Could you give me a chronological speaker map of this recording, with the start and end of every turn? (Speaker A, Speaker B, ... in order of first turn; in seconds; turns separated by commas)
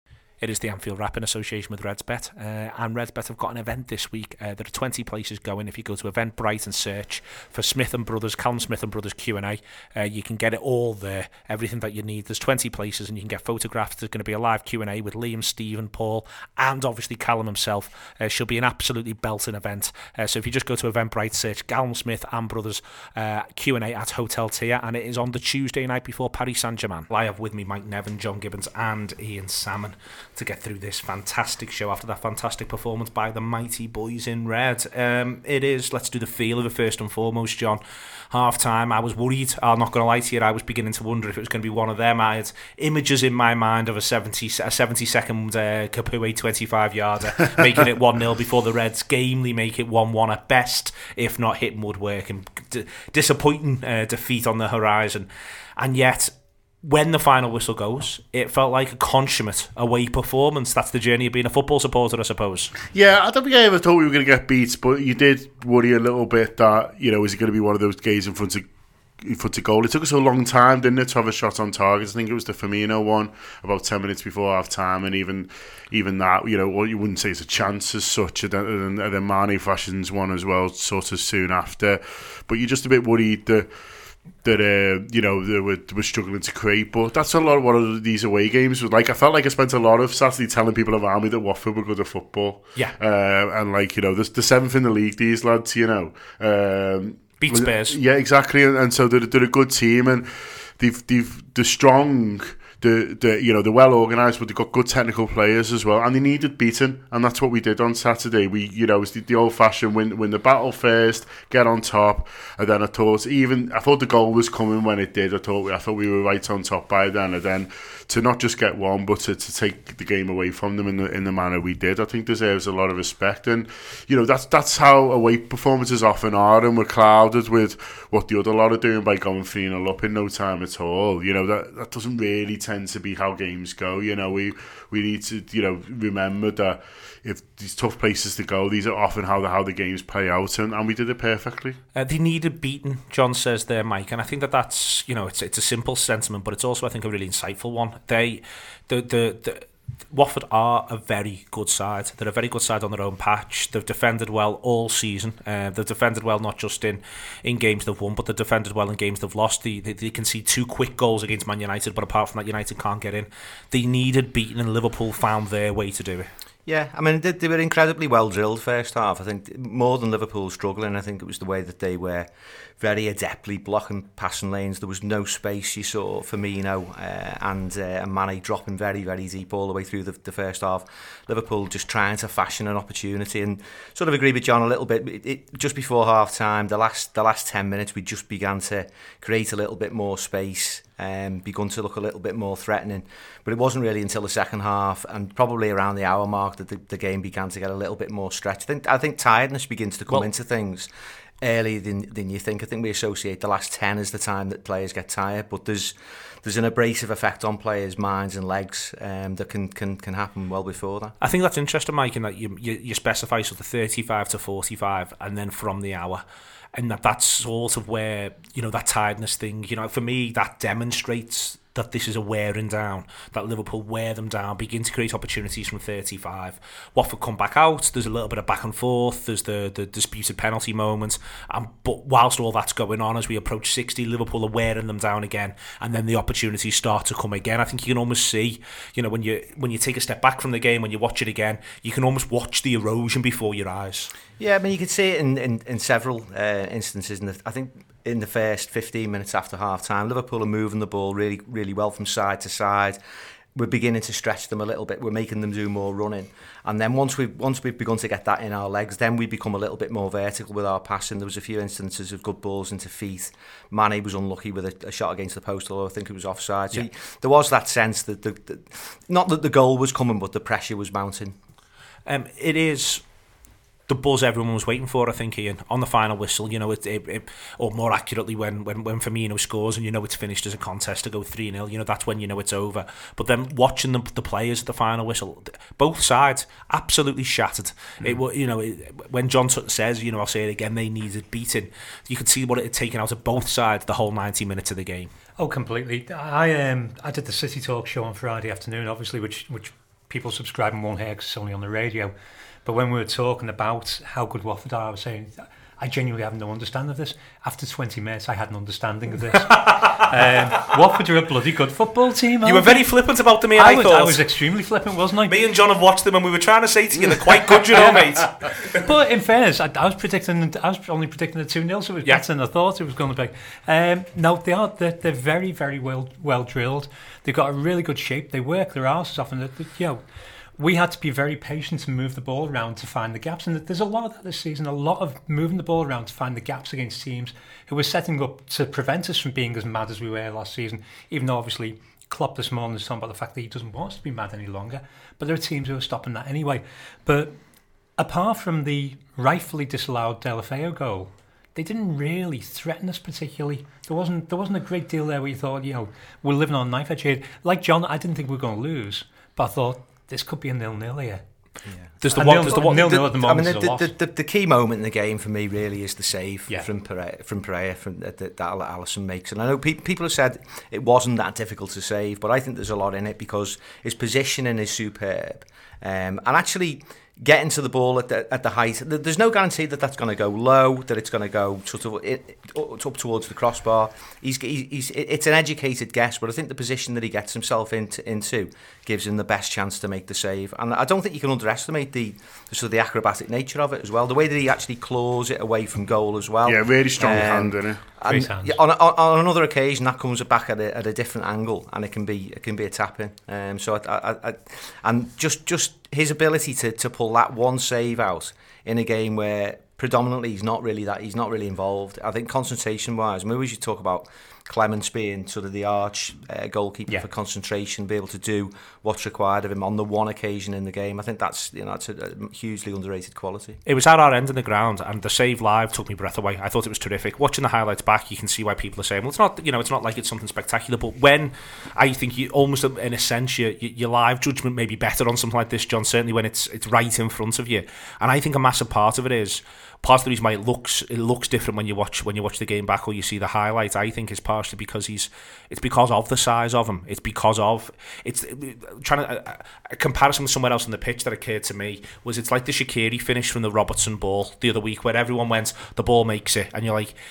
Speaker A: 0.4-62.8, Speaker B: 62.9-68.7, Speaker B: 69.2-83.7, Speaker B: 84.4-141.8, Speaker A: 97.4-98.0, Speaker A: 141.9-166.3, Speaker C: 166.7-172.3, Speaker C: 172.8-200.9, Speaker C: 201.4-211.2, Speaker A: 211.2-216.2, Speaker A: 216.7-244.1, Speaker C: 244.4-253.0, Speaker C: 253.6-271.4, Speaker A: 272.1-273.0, Speaker A: 273.9-295.1, Speaker D: 295.4-302.1, Speaker D: 302.6-312.8, Speaker A: 309.7-310.1, Speaker A: 312.4-314.2, Speaker D: 313.6-315.4, Speaker A: 315.3-318.8, Speaker D: 318.7-330.0, Speaker D: 330.6-347.4, Speaker D: 348.0-361.2, Speaker C: 361.7-423.6, Speaker A: 362.0-363.0, Speaker D: 362.1-363.9, Speaker B: 396.4-397.8, Speaker D: 398.0-398.6, Speaker A: 423.7-456.9